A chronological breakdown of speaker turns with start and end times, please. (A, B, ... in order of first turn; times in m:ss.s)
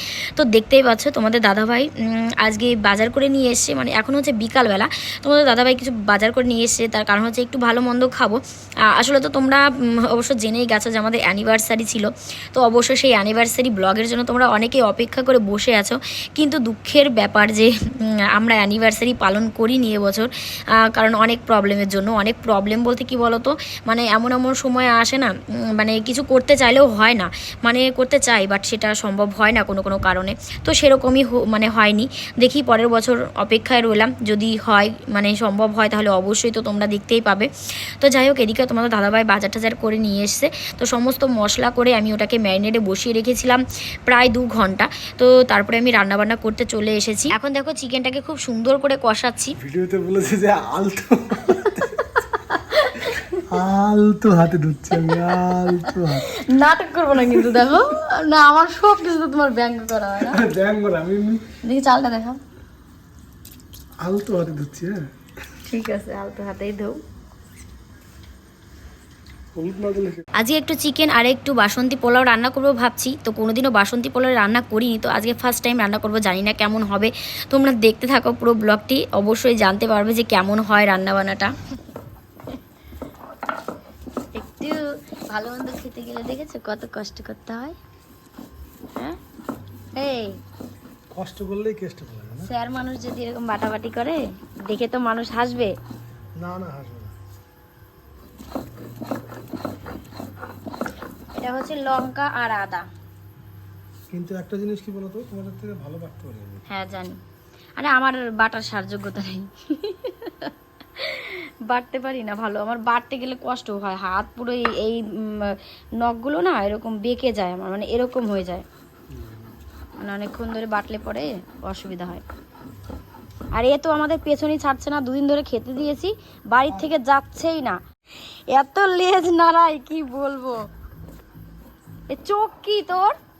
0:00.3-0:08.4 A
0:08.9-0:20.3 A
0:20.8-0:49.5 A
0:49.6-0:52.0 B
0:52.5-0:53.2 A
0:53.5-0:56.3 B
0:54.9-1:00.4 A
1:00.2-1:01.4 B
1:01.6-1:02.4 A
1:04.0-1:05.0 B
1:05.7-1:07.0 A
1:09.6-1:10.2 B
1:10.4-1:21.5 A
1:24.3-1:27.8 A
1:29.9-1:30.4 A
1:31.1-1:32.5 B
1:32.4-1:35.7 A
1:36.4-1:37.1 B
1:41.4-1:42.9 A
1:44.1-1:46.6 B
1:46.7-1:47.2 A
1:47.8-1:58.6 A
2:00.0-2:02.2 A
2:03.5-2:07.8 A
2:08.5-2:10.7 A
2:12.1-2:13.2 A